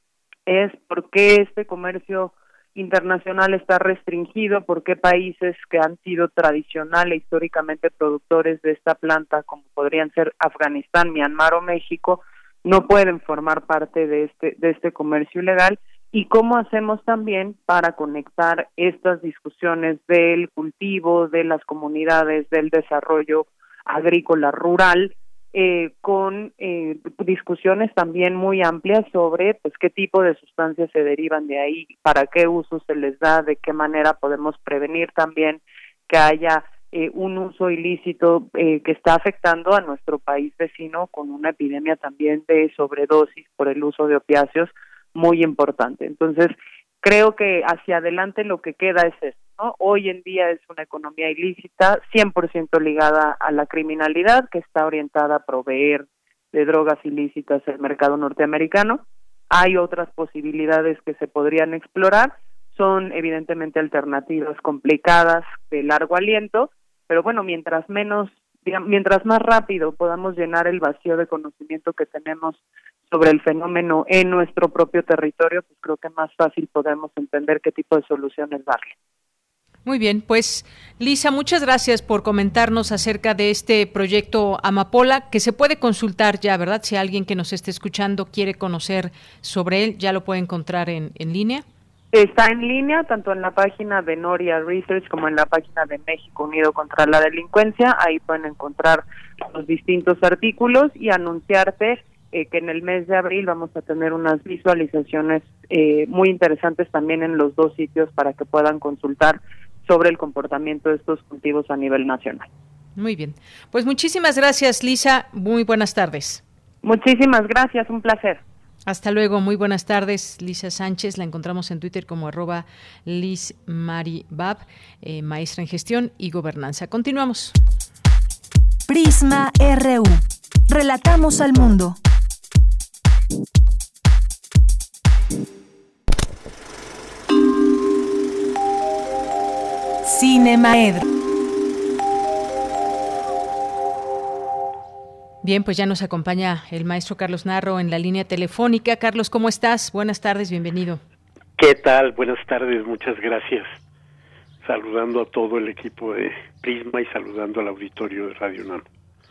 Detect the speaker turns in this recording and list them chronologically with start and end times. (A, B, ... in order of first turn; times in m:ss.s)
0:00.5-1:18.9 A
1:19.8-1:31.6 B
1:32.1-1:52.5 A
1:53.0-1:56.4 B
1:56.8-1:58.4 A
1:58.8-2:07.6 B
2:08.9-2:12.0 C
2:20.1-2:21.0 B
2:20.2-2:21.0 C
2:25.4-2:31.0 B
2:31.6-2:33.8 D
2:34.6-2:38.8 D